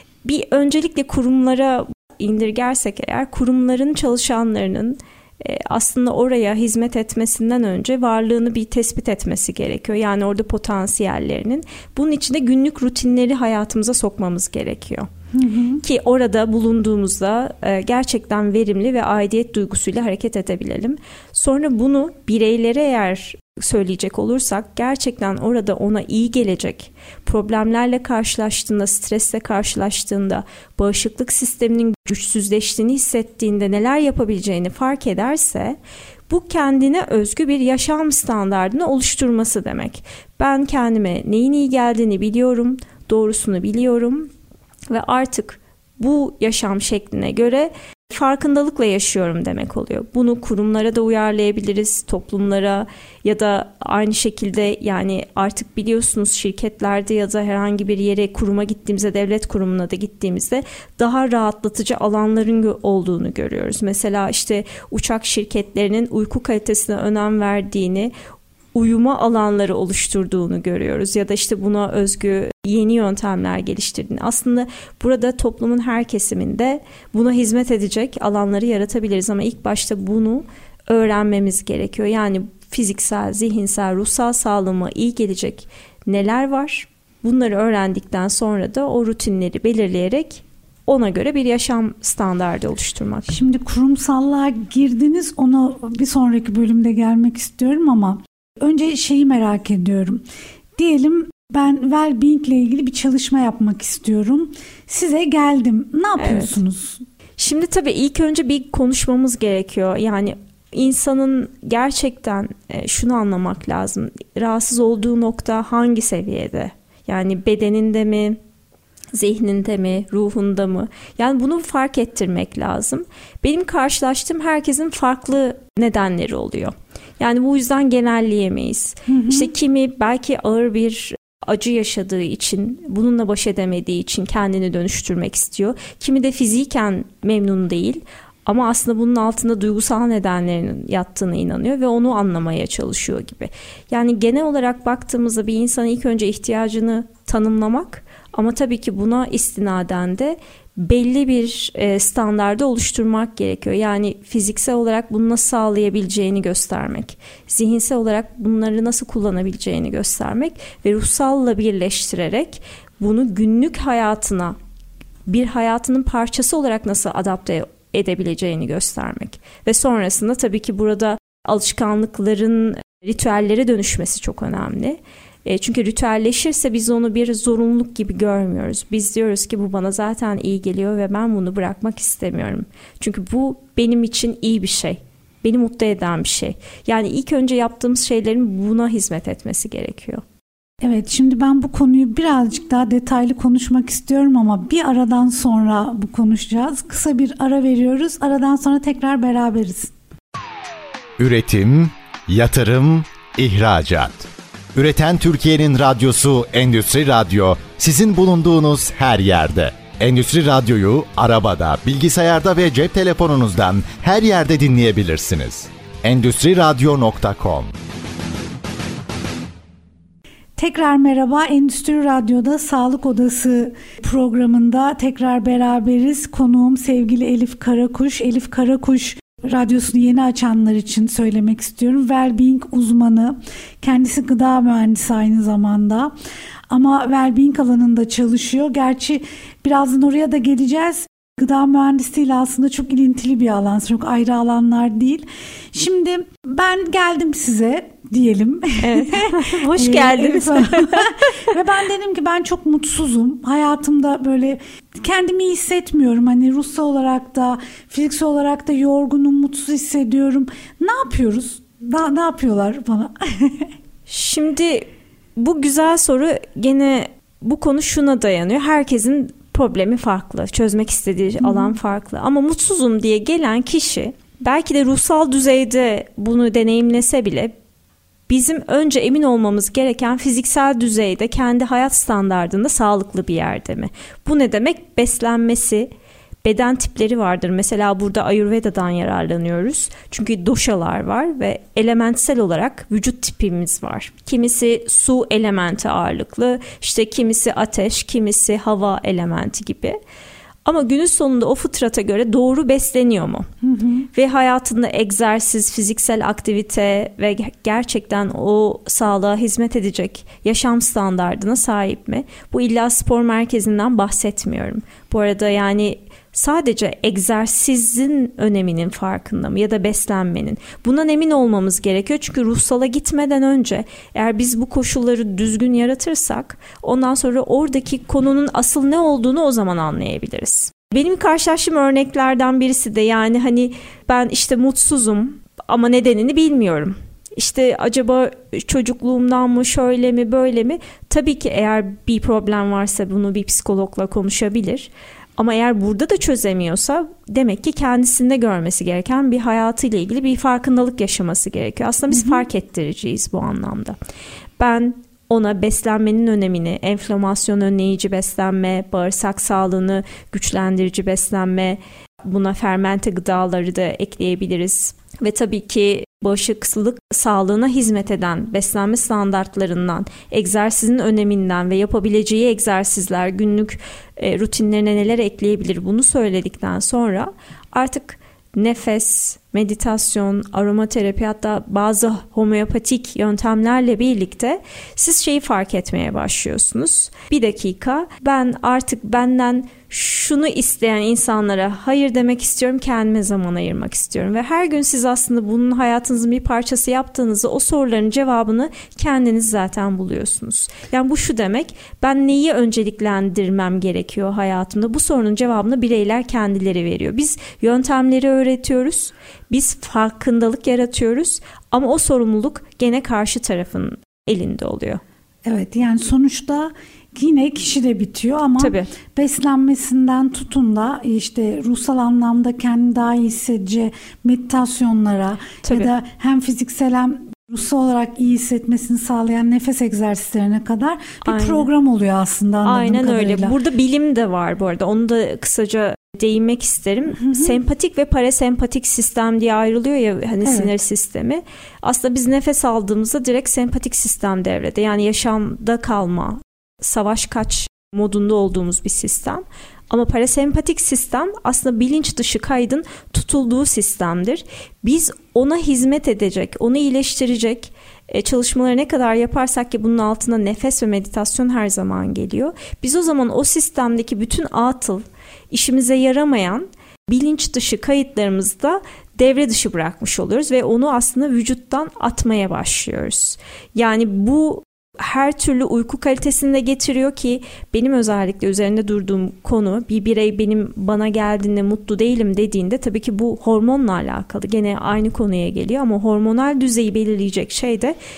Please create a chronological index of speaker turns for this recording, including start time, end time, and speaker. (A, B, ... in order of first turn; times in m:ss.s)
0:00.2-0:15.1 A
0:15.3-0:15.8 B
0:15.8-0:35.8 A
0:36.3-0:44.3 A
0:44.9-1:08.1 A
1:08.7-1:33.4 A
1:33.3-1:40.2 B
1:40.8-1:47.0 B
1:46.2-1:46.6 A
1:47.4-1:58.4 A
1:59.1-2:44.6 A
2:09.1-2:09.5 B
2:45.3-3:10.2 A
3:10.8-3:19.9 B
3:21.2-3:37.7 C
3:40.6-3:56.1 B
3:56.7-4:23.7 B
4:08.8-4:11.2 A
4:24.1-4:37.5 A
4:31.4-4:31.8 B
4:38.3-4:45.9 A
4:46.4-5:00.0 A
5:00.6-5:03.5 A
5:03.6-5:04.1 B
5:04.1-5:54.0 A
5:52.1-5:52.4 B
5:54.6-6:55.0 A
6:55.4-7:13.5 B
6:58.6-6:58.9 A
7:05.6-7:05.9 A
7:11.2-7:11.7 A
7:12.6-8:08.0 A
7:17.2-7:17.5 B
7:20.4-7:20.7 B